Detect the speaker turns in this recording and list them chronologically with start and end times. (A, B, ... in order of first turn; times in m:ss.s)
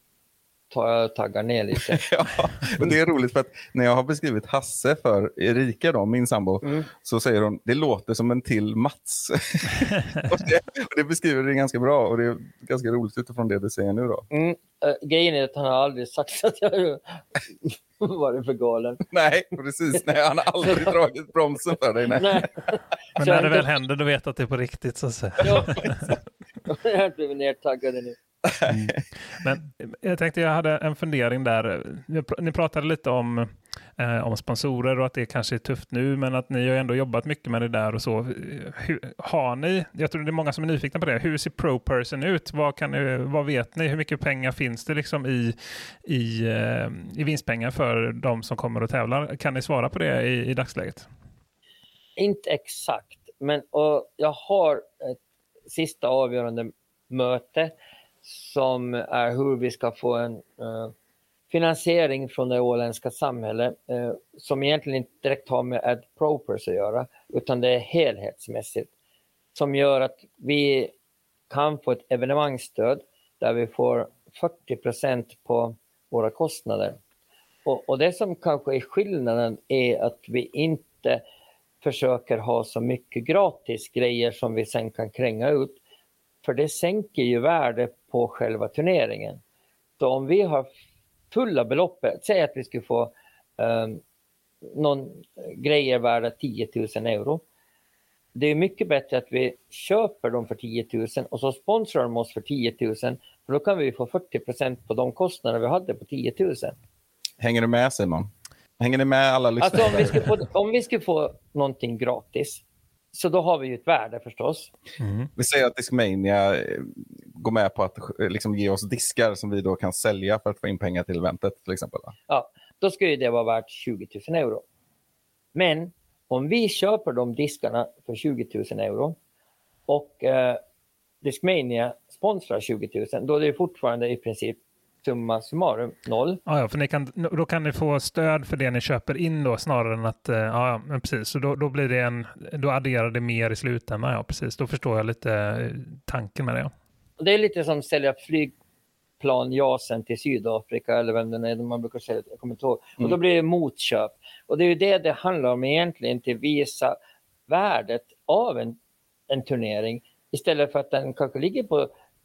0:00.7-0:02.0 A
0:01.9-0:14.3 B
0:06.6-0:06.9 A
0:14.3-0:19.0 A
0:19.1-0:22.5 B
0:20.6-0:20.9 A
0:22.2-0:23.7 A
0:23.2-0:26.2 C
0:25.4-0:25.9 A
0:26.7-0:28.2 A
0:28.4-0:28.9 B
0:28.7-0:51.1 C
0:52.2-0:57.7 A
0:58.2-1:00.9 A
1:01.5-1:08.9 A
1:09.6-1:10.9 A
1:11.5-1:17.0 A
1:17.6-1:21.2 A
1:21.8-1:25.8 A
1:26.4-1:29.4 A
1:30.0-1:30.7 A
1:31.3-1:34.0 A
1:34.6-1:37.4 A
1:38.3-1:46.8 A
1:47.4-1:50.3 B
1:49.6-1:54.7 A
1:55.0-1:55.3 C
1:55.4-2:02.1 B
2:02.3-2:04.6 A
2:05.5-2:09.2 A
2:09.9-2:10.6 A
2:11.2-2:16.4 A
2:16.5-2:26.7 C
2:27.2-2:28.5 A
2:29.2-2:37.0 A
2:37.5-2:38.8 A
2:39.3-2:41.9 A